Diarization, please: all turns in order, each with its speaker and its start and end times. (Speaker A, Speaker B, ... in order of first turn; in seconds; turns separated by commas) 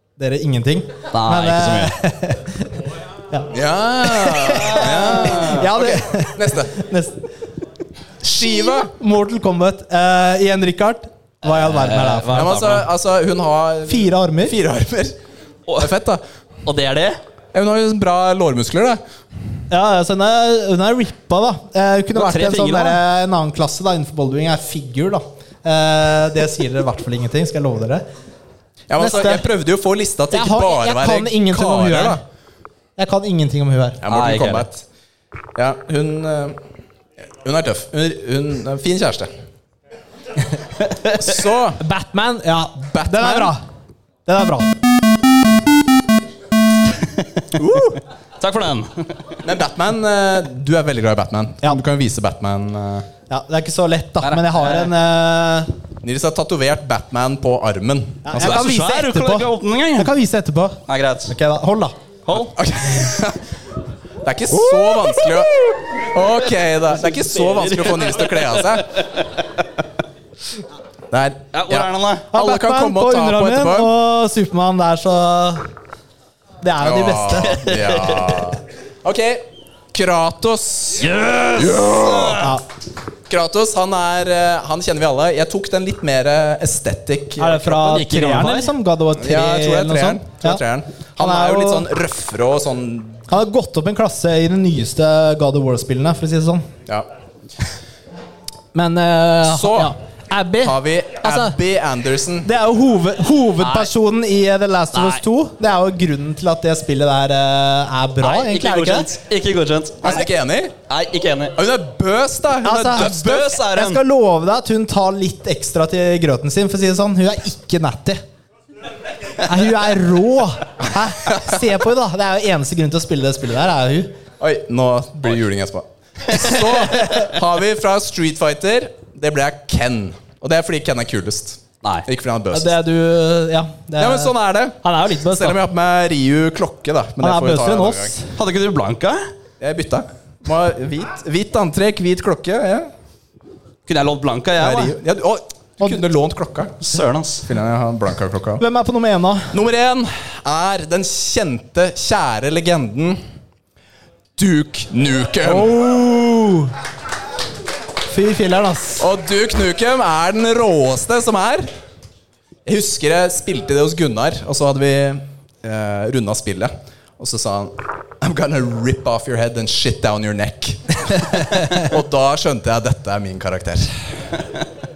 Speaker A: 0.2-2.7, Speaker B: 1.1-1.9, Speaker C: 3.5-6.8, Speaker A: 4.0-7.2, Speaker B: 4.8-5.6, Speaker C: 8.2-8.9, Speaker A: 8.4-12.4, Speaker B: 11.5-12.9, Speaker C: 12.3-15.1, Speaker A: 13.9-14.6, Speaker C: 15.8-16.2, Speaker B: 16.6-17.2, Speaker C: 17.5-19.0, Speaker A: 19.7-28.0, Speaker B: 22.1-23.0, Speaker C: 28.9-32.2, Speaker A: 29.0-29.4, Speaker A: 30.3-32.2, Speaker A: 33.0-34.0, Speaker C: 34.0-34.8, Speaker B: 34.1-34.7, Speaker C: 35.5-36.6, Speaker C: 37.4-39.3, Speaker C: 41.1-41.8, Speaker A: 41.8-43.6, Speaker C: 42.9-43.5, Speaker A: 44.2-44.7, Speaker C: 47.5-48.0, Speaker B: 48.4-49.3, Speaker C: 49.4-53.1, Speaker A: 53.3-55.7, Speaker B: 54.2-54.9, Speaker C: 56.0-58.5, Speaker A: 58.2-62.0, Speaker B: 58.3-60.1, Speaker B: 60.9-61.3, Speaker B: 62.2-62.5, Speaker C: 62.4-63.5, Speaker C: 64.2-68.9, Speaker B: 64.5-66.0, Speaker B: 66.9-69.6, Speaker C: 71.1-73.9, Speaker B: 71.5-72.3, Speaker A: 72.3-75.6, Speaker A: 76.6-77.6, Speaker C: 76.8-82.5, Speaker B: 77.5-78.4, Speaker B: 81.0-82.5, Speaker A: 82.4-82.6, Speaker C: 83.3-88.0, Speaker A: 87.4-90.6, Speaker B: 87.8-88.7, Speaker C: 89.2-93.2, Speaker A: 91.2-91.8, Speaker A: 93.3-96.7, Speaker A: 98.7-101.5, Speaker C: 99.5-99.9, Speaker C: 100.6-102.5, Speaker A: 102.4-109.1, Speaker B: 103.6-103.9, Speaker B: 104.9-105.2, Speaker B: 108.2-110.2, Speaker C: 110.0-110.7, Speaker B: 110.9-111.5, Speaker C: 111.5-113.6, Speaker A: 112.6-118.2, Speaker B: 112.9-114.0, Speaker A: 119.4-124.1, Speaker C: 124.4-132.7, Speaker B: 131.8-132.1, Speaker A: 132.5-135.6, Speaker C: 134.0-138.1, Speaker A: 137.2-138.3, Speaker B: 138.3-139.3, Speaker C: 139.6-142.9, Speaker B: 143.8-144.9, Speaker C: 144.6-146.9, Speaker B: 146.8-147.5, Speaker C: 147.4-148.6, Speaker A: 148.6-149.5, Speaker C: 149.5-153.2, Speaker C: 154.4-155.7, Speaker A: 155.4-156.7, Speaker A: 158.1-159.1, Speaker C: 159.0-161.7, Speaker C: 162.7-173.9